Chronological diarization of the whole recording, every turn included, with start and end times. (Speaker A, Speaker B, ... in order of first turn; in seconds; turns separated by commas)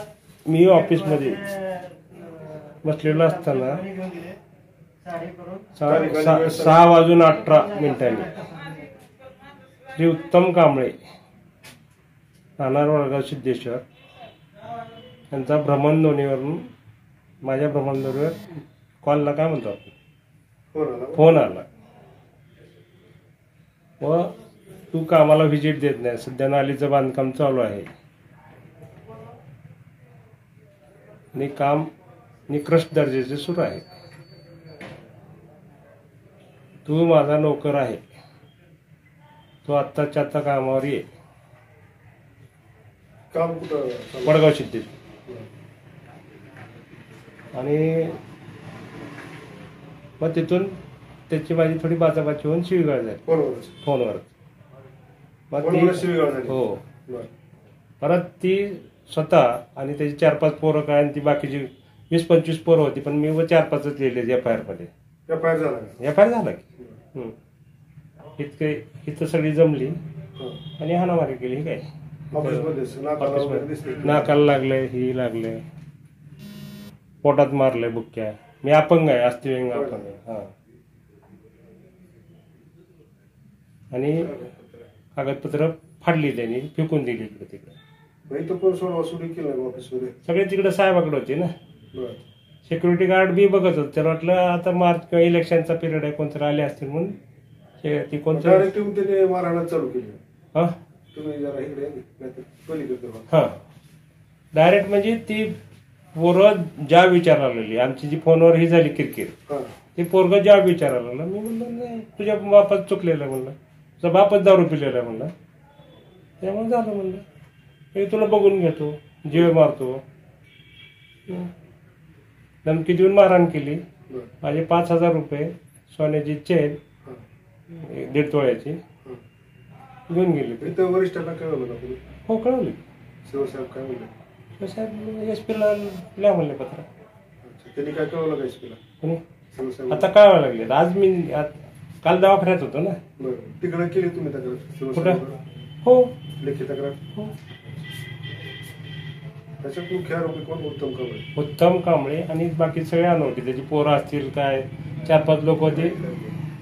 Speaker A: 0.5-1.5, Speaker A: 2.8-3.9, Speaker A: 5.7-8.3, Speaker B: 5.8-6.8, Speaker A: 9.9-10.9, Speaker A: 12.6-13.8, Speaker A: 15.3-16.6, Speaker A: 17.4-18.4, Speaker A: 19.0-19.9, Speaker B: 20.7-21.3, Speaker A: 21.1-21.6, Speaker A: 24.0-24.3, Speaker A: 24.9-27.9, Speaker A: 31.3-31.9, Speaker A: 32.5-33.9, Speaker A: 36.9-38.0, Speaker A: 39.6-41.0, Speaker B: 43.3-44.4, Speaker A: 44.2-44.9, Speaker A: 47.5-48.2, Speaker A: 50.2-50.8, Speaker A: 51.3-53.2, Speaker B: 53.3-53.7, Speaker A: 53.8-54.2, Speaker A: 55.5-56.8, Speaker B: 55.6-57.3, Speaker A: 58.0-64.9, Speaker B: 65.3-66.0, Speaker A: 66.0-67.3, Speaker A: 68.4-70.0, Speaker A: 70.8-75.6, Speaker B: 72.3-74.3, Speaker A: 77.2-80.5, Speaker B: 79.7-80.1, Speaker A: 83.9-84.3, Speaker B: 84.3-84.7, Speaker A: 85.2-87.7, Speaker B: 88.3-90.1, Speaker A: 90.2-91.5, Speaker B: 91.9-92.2, Speaker A: 92.7-97.2, Speaker A: 97.8-98.7, Speaker B: 98.3-100.2, Speaker B: 101.1-103.3, Speaker A: 103.3-103.6, Speaker A: 104.5-105.6, Speaker A: 106.2-109.3, Speaker A: 110.0-115.3, Speaker A: 116.4-117.2, Speaker A: 117.9-120.0, Speaker A: 122.6-123.8, Speaker A: 124.4-126.8, Speaker A: 127.7-128.8, Speaker A: 130.1-130.8, Speaker B: 130.6-132.0, Speaker A: 132.3-132.8, Speaker B: 133.2-134.1, Speaker A: 134.6-136.8, Speaker B: 137.4-138.8, Speaker B: 139.5-140.1, Speaker A: 139.9-143.0, Speaker B: 143.2-145.4, Speaker A: 144.9-145.2, Speaker A: 145.8-146.1, Speaker B: 146.4-147.0, Speaker B: 149.6-151.2, Speaker A: 151.3-155.9, Speaker B: 155.7-156.4